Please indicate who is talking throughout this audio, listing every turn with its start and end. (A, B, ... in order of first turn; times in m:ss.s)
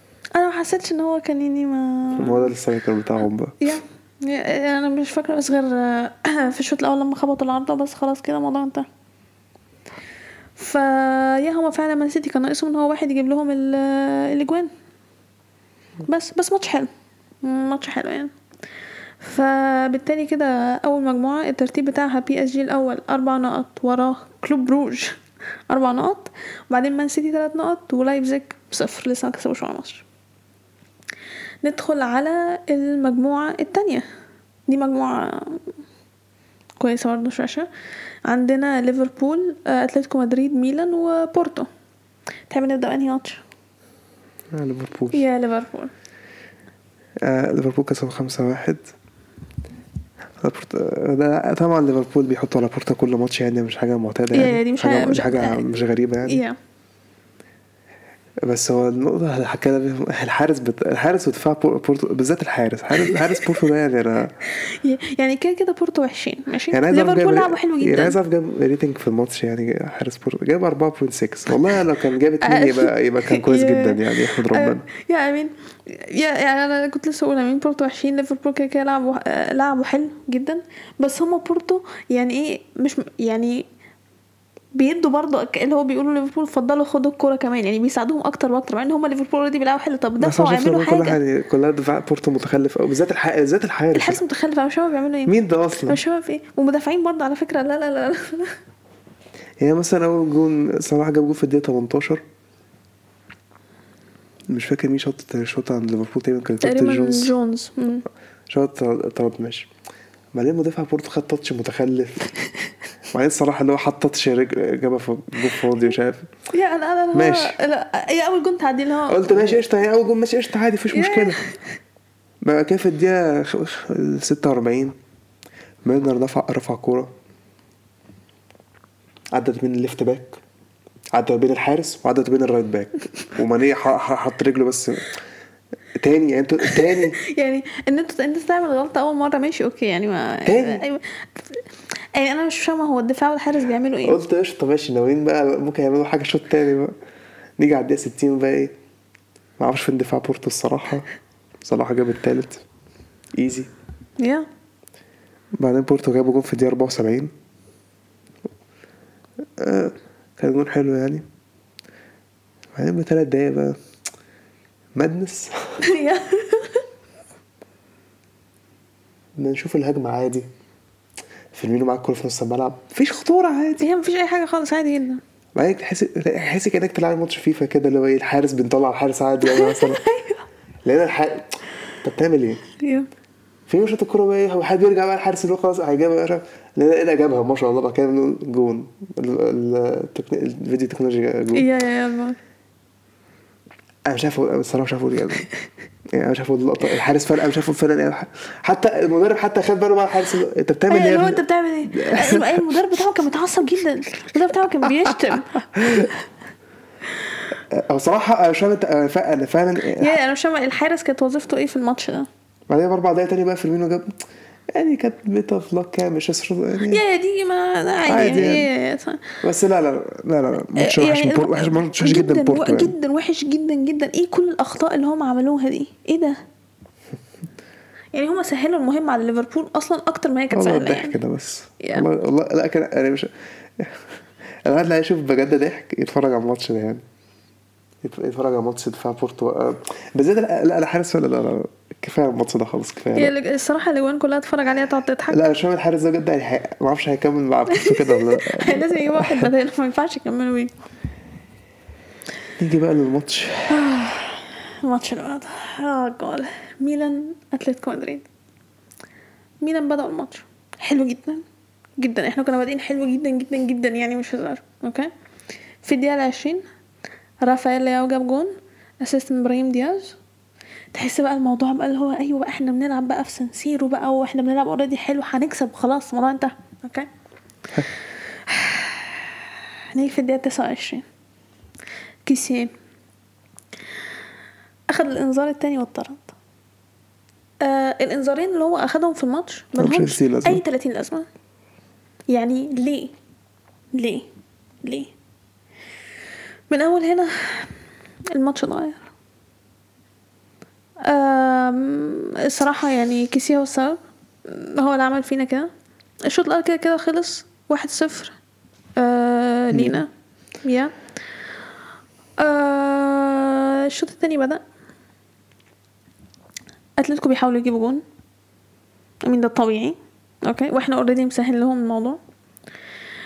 0:00.4-0:02.5 A
0:02.2-0:03.7 B
0:03.6-0:08.9 A
0:10.6-0:14.7 A
0:16.1-0:16.9 A
0:17.4-0:18.3 A
0:19.2-0:30.0 A
0:31.6-0:34.0 A
0:34.7-0:35.7 A
0:36.8-0:37.7 A
0:38.2-0:41.7 A
0:42.5-0:43.4 A
0:44.5-0:45.2 B
0:45.1-0:45.9 A
0:47.2-0:48.8 B
0:50.4-0:56.4 B
0:54.3-0:56.6 A
0:58.4-1:04.3 B
1:03.0-1:03.6 A
1:04.5-1:08.2 A
1:06.7-1:14.8 B
1:12.4-1:23.6 A
1:24.7-1:31.2 A
1:30.2-1:34.2 B
1:33.9-1:38.6 A
1:35.3-1:36.0 B
1:39.6-1:42.2 B
1:44.5-1:47.3 B
1:46.6-1:48.0 A
1:48.5-1:49.7 B
1:50.3-1:52.3 B
1:53.1-1:56.3 B
1:56.5-1:59.6 A
1:57.1-1:57.6 B
1:59.1-2:01.4 B
2:00.9-2:01.6 A
2:02.4-2:05.0 B
2:05.8-2:07.1 B
2:09.3-2:10.4 B
2:11.1-2:15.1 B
2:16.0-2:17.2 B
2:16.7-2:21.6 A
2:20.4-2:20.8 B
2:22.1-2:24.2 A
2:24.0-2:26.9 B
2:27.6-2:28.7 B
2:29.6-2:31.1 B
2:31.6-2:32.6 B
2:33.3-2:33.7 B
2:34.2-2:34.4 A
2:35.6-2:37.3 B
2:39.6-2:41.2 B
2:42.7-2:43.8 B
2:44.9-2:45.5 B
2:45.8-2:46.8 A
2:49.4-2:50.4 B
2:51.5-2:53.8 B
2:53.8-2:55.2 A
2:55.6-3:00.0 B
2:59.4-3:00.4 A
3:00.8-3:01.5 B
3:02.0-3:02.6 B
3:02.8-3:03.1 A
3:03.7-3:11.7 B
3:11.5-3:12.4 A
3:14.0-3:15.5 B
3:16.1-3:23.1 B
3:20.9-3:26.0 A
3:25.7-3:26.1 B
3:27.7-3:30.2 B
3:29.9-3:32.3 A
3:32.7-3:34.2 B
3:34.7-3:37.0 B
3:36.8-3:39.4 A
3:38.0-3:38.7 B
3:39.4-3:42.9 B
3:40.7-3:46.4 A
3:48.1-3:51.2 A
3:50.5-3:57.0 B
3:51.8-3:52.1 A
3:58.0-4:03.3 B
4:03.1-4:05.4 A
4:05.3-4:09.5 B
4:07.7-4:10.7 A
4:12.6-4:13.9 B
4:13.7-4:18.2 A
4:19.6-4:21.4 A
4:22.0-4:25.1 A
4:25.8-4:26.6 A
4:27.4-4:30.2 A
4:30.9-4:37.1 A
4:38.5-4:39.4 A
4:39.9-4:41.0 A
4:42.2-4:42.7 A
4:44.9-4:46.3 A
4:47.6-4:51.2 A
4:49.8-4:50.6 B
4:52.3-4:53.1 A
4:53.9-4:54.3 A
4:54.8-4:55.1 A
4:56.7-4:57.7 A
4:58.3-4:59.0 A
5:01.0-5:05.7 A
5:06.3-5:08.3 A
5:09.0-5:10.1 A
5:09.7-5:10.0 B
5:10.6-5:10.9 A
5:12.4-5:14.6 A
5:17.0-5:18.0 A
5:19.2-5:22.2 A